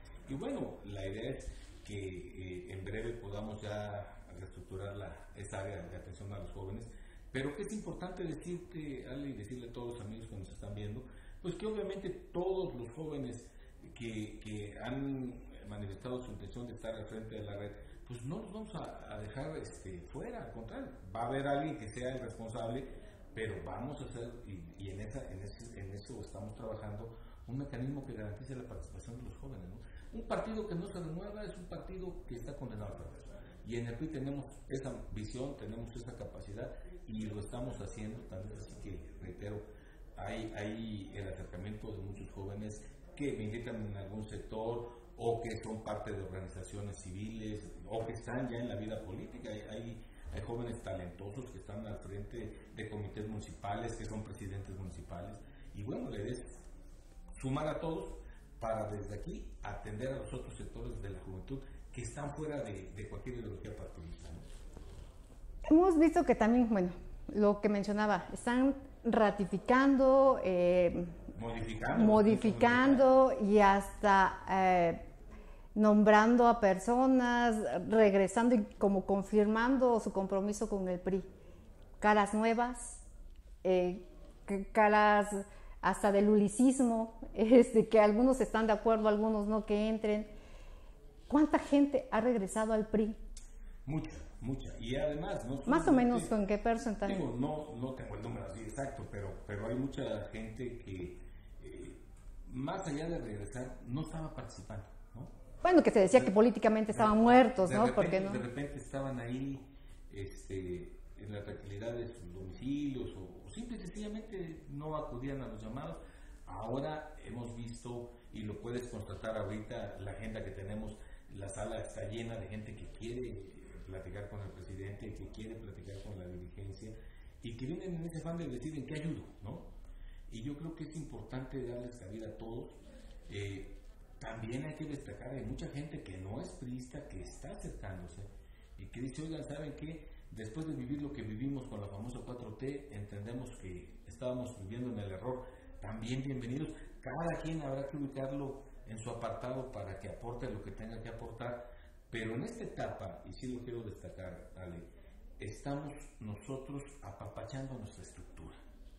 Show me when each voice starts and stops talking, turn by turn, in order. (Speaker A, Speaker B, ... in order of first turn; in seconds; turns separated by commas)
Speaker A: 0.3-39.6, Speaker A: 40.2-56.6, Speaker A: 57.4-64.5, Speaker B: 65.7-71.2, Speaker A: 71.3-73.1, Speaker B: 71.9-75.0, Speaker B: 75.8-81.3, Speaker B: 82.0-83.0, Speaker B: 83.6-90.3, Speaker B: 91.3-93.2, Speaker A: 93.9-96.3, Speaker B: 95.7-97.2, Speaker A: 97.0-105.3, Speaker B: 105.6-108.4, Speaker A: 106.1-106.3, Speaker A: 106.9-129.7, Speaker A: 130.3-132.8, Speaker A: 133.3-154.9, Speaker A: 155.4-158.6